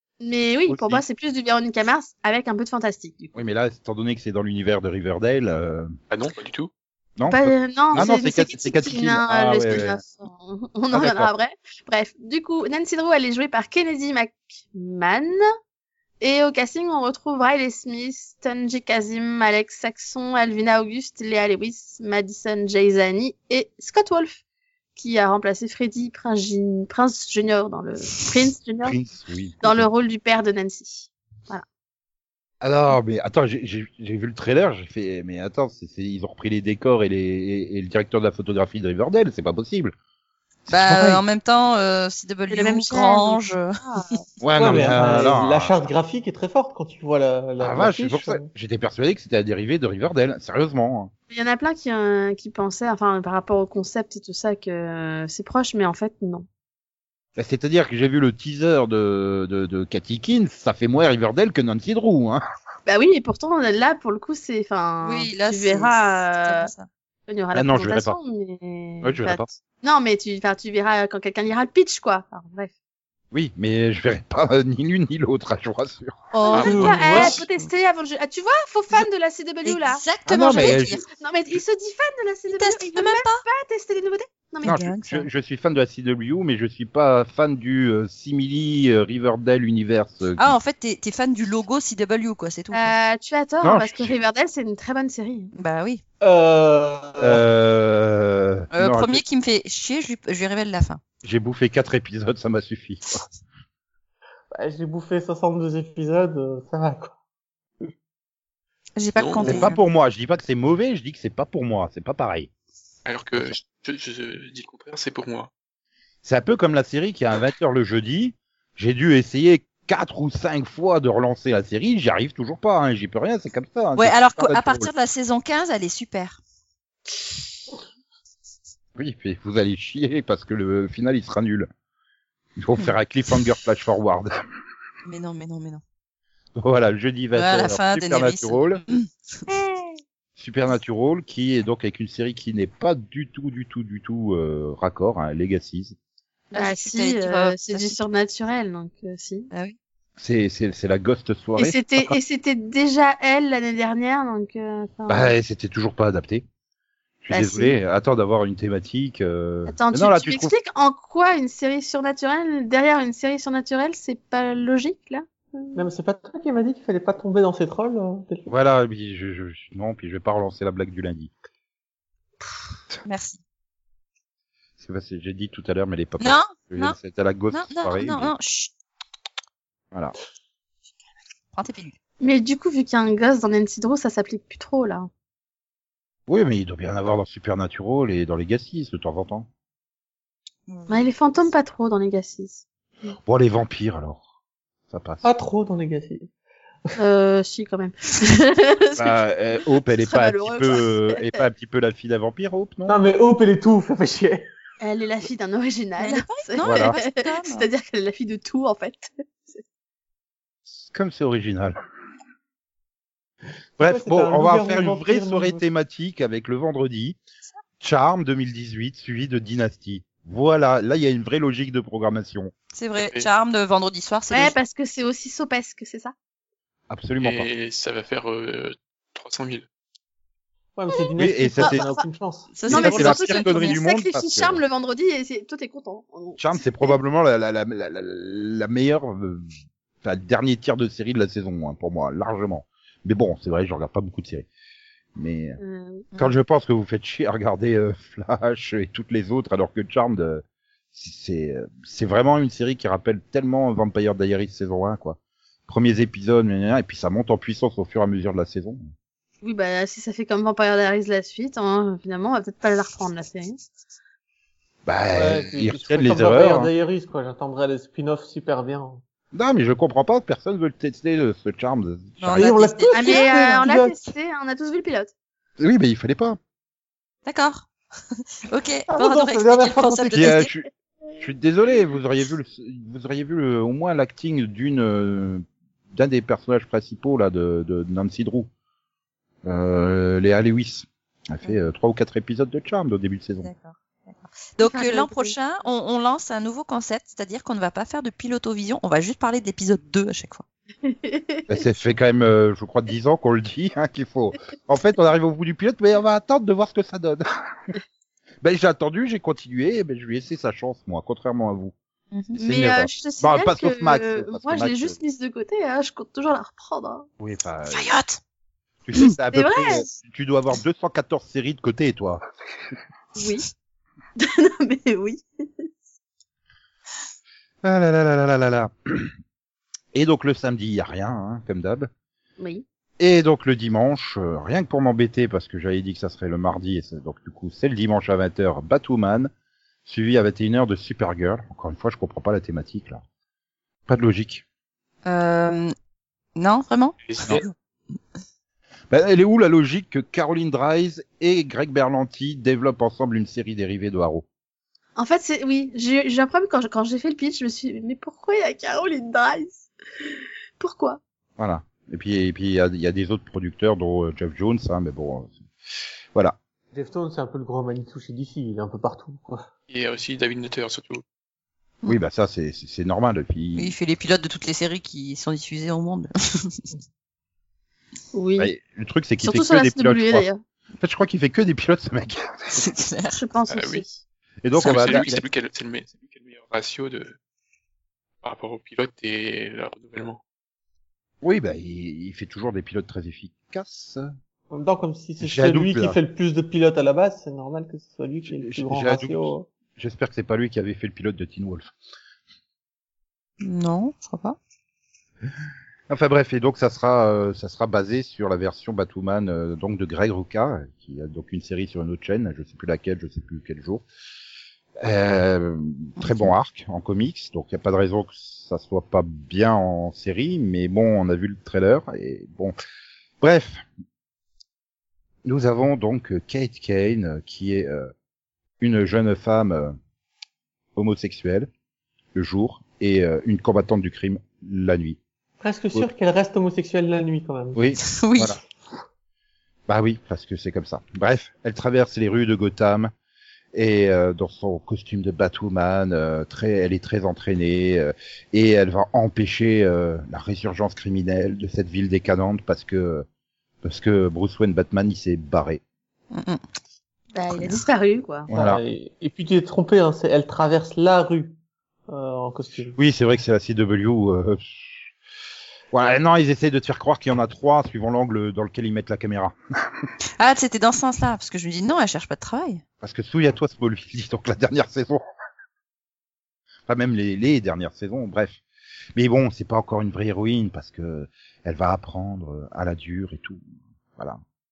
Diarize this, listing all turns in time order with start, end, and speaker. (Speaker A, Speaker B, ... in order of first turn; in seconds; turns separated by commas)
Speaker A: 0.2-3.4, Speaker B: 0.7-1.0, Speaker B: 3.4-6.0, Speaker C: 6.1-6.7, Speaker B: 7.2-10.0, Speaker A: 7.3-15.4, Speaker B: 10.9-11.3, Speaker A: 16.2-24.4, Speaker A: 25.0-29.0, Speaker B: 28.8-29.9, Speaker A: 29.6-31.6, Speaker B: 32.6-39.9, Speaker B: 40.7-41.2, Speaker D: 40.7-44.2, Speaker A: 42.5-44.2, Speaker B: 44.4-45.7, Speaker E: 44.6-48.5, Speaker B: 47.6-51.1, Speaker A: 51.3-56.5, Speaker B: 57.4-62.4, Speaker A: 62.9-66.7, Speaker D: 65.0-66.9, Speaker A: 67.3-72.7, Speaker B: 67.5-68.2, Speaker B: 69.0-69.5, Speaker B: 73.3-76.3, Speaker D: 76.3-77.5, Speaker A: 76.4-84.8, Speaker C: 76.5-77.4, Speaker E: 76.6-77.4, Speaker D: 79.7-81.0, Speaker B: 80.3-81.0, Speaker D: 82.5-83.4, Speaker D: 84.6-85.3, Speaker B: 84.7-90.5, Speaker D: 90.4-92.9, Speaker A: 92.7-95.5, Speaker B: 93.6-94.1, Speaker D: 95.6-96.0, Speaker E: 96.2-97.4, Speaker B: 97.2-99.2, Speaker D: 98.7-101.0, Speaker B: 101.2-103.2, Speaker E: 104.5-107.1, Speaker D: 109.0-109.8, Speaker C: 109.2-109.7, Speaker B: 109.4-112.5, Speaker C: 113.0-115.5, Speaker B: 116.2-124.9, Speaker D: 124.0-126.4, Speaker B: 129.0-131.7, Speaker B: 132.6-134.3, Speaker D: 135.1-135.8, Speaker B: 136.6-138.8, Speaker D: 137.3-139.1, Speaker B: 140.4-146.0, Speaker D: 146.5-148.0, Speaker A: 146.6-149.5, Speaker D: 149.5-149.8, Speaker B: 150.2-152.2, Speaker A: 151.6-155.3, Speaker B: 155.1-156.5, Speaker B: 157.2-160.5, Speaker A: 157.3-157.8, Speaker A: 159.7-165.8, Speaker E: 165.8-168.5, Speaker B: 168.5-171.3, Speaker D: 173.1-173.4, Speaker B: 174.8-178.3, Speaker D: 176.2-177.0, Speaker D: 177.5-178.7, Speaker D: 181.5-182.0, Speaker A: 182.2-185.1, Speaker B: 186.3-189.5, Speaker D: 190.7-191.1, Speaker A: 190.9-192.6, Speaker B: 193.3-194.2, Speaker B: 194.9-195.3, Speaker E: 195.2-196.3, Speaker A: 197.0-199.2, Speaker B: 199.0-203.0, Speaker A: 199.8-201.4, Speaker E: 202.9-204.4, Speaker A: 204.8-209.6, Speaker D: 206.0-207.7, Speaker B: 206.6-206.9, Speaker B: 210.8-211.8, Speaker B: 213.8-217.2, Speaker E: 213.8-215.6, Speaker B: 217.8-222.5, Speaker D: 222.7-224.6, Speaker C: 223.0-223.3, Speaker A: 224.3-226.1, Speaker B: 226.9-227.5, Speaker C: 227.2-229.7, Speaker E: 230.8-232.5, Speaker B: 231.2-231.8, Speaker A: 231.6-232.0, Speaker D: 232.5-233.8, Speaker A: 232.7-237.0, Speaker B: 232.7-234.6, Speaker B: 236.4-239.5, Speaker B: 240.0-244.5, Speaker B: 245.2-245.6, Speaker A: 245.6-246.1, Speaker B: 246.2-250.4, Speaker B: 250.9-258.8, Speaker A: 259.4-263.6, Speaker B: 264.9-266.7, Speaker E: 265.1-269.0, Speaker B: 269.3-272.6, Speaker D: 272.2-273.6, Speaker E: 272.3-274.1, Speaker A: 272.9-275.1, Speaker B: 275.6-276.4, Speaker D: 277.3-280.5, Speaker E: 278.9-280.3, Speaker B: 280.1-280.6, Speaker B: 281.2-288.5, Speaker B: 289.4-293.5, Speaker D: 293.4-300.4, Speaker A: 294.6-295.4, Speaker A: 300.8-301.6, Speaker B: 301.5-307.2, Speaker B: 308.4-311.7, Speaker B: 312.4-315.0, Speaker A: 312.4-317.1, Speaker B: 317.2-317.9, Speaker D: 317.7-318.2, Speaker B: 318.9-322.2, Speaker A: 319.3-319.9, Speaker A: 323.2-323.5, Speaker A: 324.2-325.7, Speaker B: 327.6-329.1, Speaker B: 329.9-331.9, Speaker A: 332.4-332.6, Speaker B: 333.0-339.3, Speaker B: 339.9-343.0, Speaker B: 343.9-344.4, Speaker D: 345.1-345.7, Speaker D: 346.4-347.5, Speaker C: 347.1-347.4, Speaker B: 348.9-354.2, Speaker A: 355.0-359.7, Speaker A: 360.6-361.0, Speaker B: 361.4-365.4, Speaker E: 366.7-369.4, Speaker C: 369.7-371.0, Speaker B: 371.9-373.7, Speaker D: 373.6-376.7, Speaker A: 378.1-378.5, Speaker B: 378.4-380.3, Speaker A: 379.2-380.4, Speaker B: 380.8-382.7, Speaker D: 382.5-383.2, Speaker A: 383.1-384.0, Speaker C: 383.5-383.8, Speaker B: 384.4-385.2, Speaker D: 384.6-385.2, Speaker C: 384.6-387.2, Speaker C: 388.2-390.2, Speaker B: 391.2-394.1, Speaker E: 394.5-399.5, Speaker B: 395.2-396.0, Speaker B: 398.3-401.7, Speaker D: 403.4-404.4, Speaker B: 405.9-413.9, Speaker B: 414.8-422.6, Speaker D: 416.0-416.3, Speaker B: 423.2-423.6, Speaker B: 425.2-427.9, Speaker B: 428.6-429.8, Speaker B: 430.8-431.5, Speaker B: 432.1-435.0, Speaker E: 435.4-437.6, Speaker B: 437.6-438.4, Speaker D: 437.8-438.4, Speaker B: 439.7-442.9, Speaker B: 443.5-453.1, Speaker B: 453.6-455.6, Speaker D: 456.1-456.4, Speaker A: 457.1-458.3, Speaker D: 457.3-457.6, Speaker B: 458.3-458.6, Speaker E: 458.3-461.3, Speaker E: 461.9-462.8, Speaker B: 462.8-464.6, Speaker B: 465.7-469.9, Speaker D: 470.2-472.6, Speaker B: 472.8-475.0, Speaker B: 476.7-478.4, Speaker B: 478.9-483.4